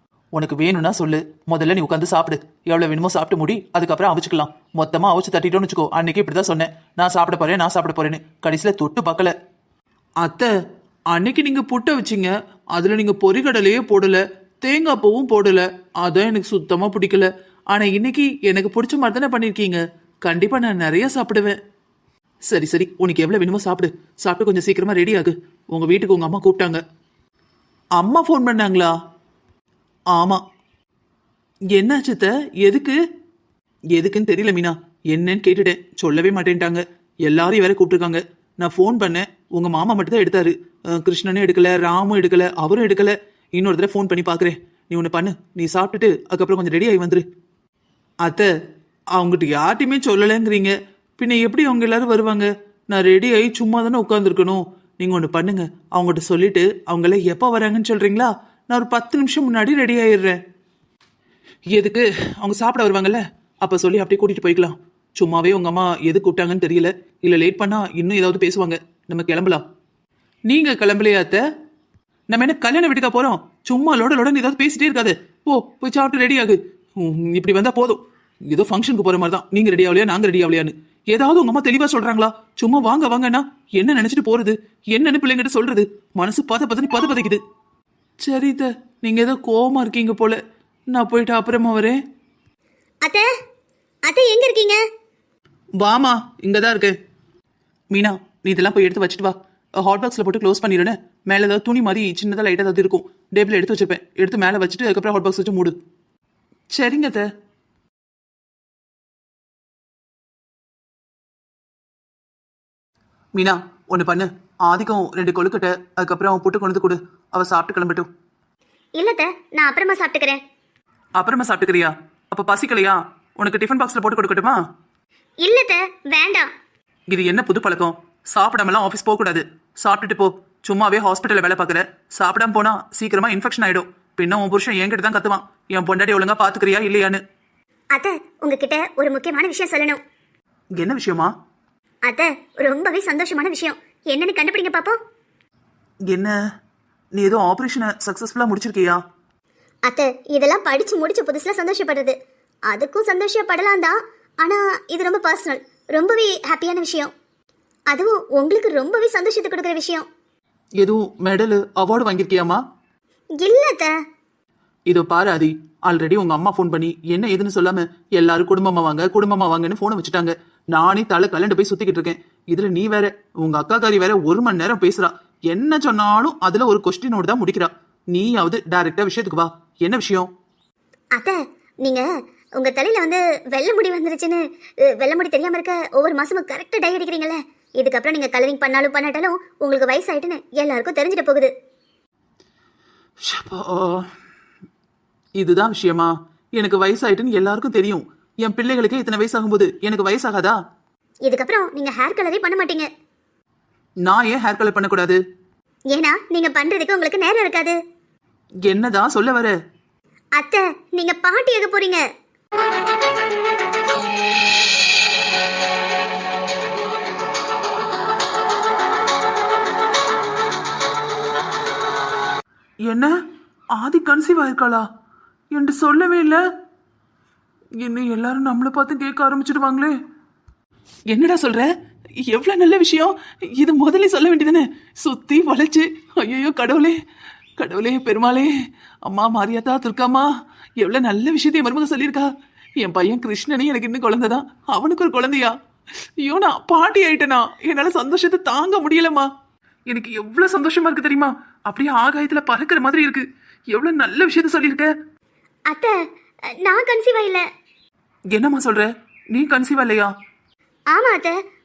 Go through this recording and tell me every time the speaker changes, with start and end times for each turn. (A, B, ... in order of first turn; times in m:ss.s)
0:00.3-0:09.3 A
0:10.2-0:10.5 A
0:11.1-0:21.6 A
0:22.5-0:26.8 A
0:28.0-0:28.9 A
0:30.1-0:30.4 A
0:31.7-0:33.0 A
0:33.9-0:47.2 A
0:48.2-0:48.5 A
0:49.2-1:00.4 A
1:01.7-1:09.6 A
1:10.5-1:11.4 A
1:12.3-1:27.4 A
1:28.2-1:30.4 A
1:30.9-1:32.0 A
1:33.0-1:33.3 B
1:34.1-1:34.8 B
1:35.8-1:37.0 A
1:37.9-1:45.8 A
1:46.7-1:47.3 A
1:53.4-1:58.1 A
1:59.0-2:00.4 B
2:01.2-2:04.6 A
2:05.4-2:06.5 B
2:07.1-2:17.2 A
2:17.9-2:20.0 B
2:20.8-2:21.3 A
2:22.1-2:25.0 B
2:26.1-2:26.3 A
2:27.1-2:29.0 A
2:29.9-2:32.2 B
2:32.7-2:37.1 B
2:37.9-2:40.1 B
2:40.8-2:42.6 A
2:43.4-2:43.9 B
2:44.9-3:00.3 A
3:01.2-3:02.0 B
3:02.6-3:11.5 B
3:13.3-3:14.1 A
3:15.4-3:20.6 A
3:21.2-3:22.9 B
3:24.0-3:25.2 A
3:25.9-3:27.8 B
3:28.7-3:29.5 A
3:30.4-3:32.0 B
3:43.7-3:44.8 A
3:45.5-3:46.4 A
3:47.8-3:50.0 A
3:51.1-3:51.7 A
3:52.3-3:57.0 A
3:57.6-3:58.5 A
3:59.1-4:00.3 A
4:00.8-4:05.6 A
4:06.2-4:09.3 A
4:09.9-4:14.9 A
4:15.7-4:16.0 B
4:16.6-4:17.4 B
4:18.3-4:20.1 A
4:20.9-4:21.4 B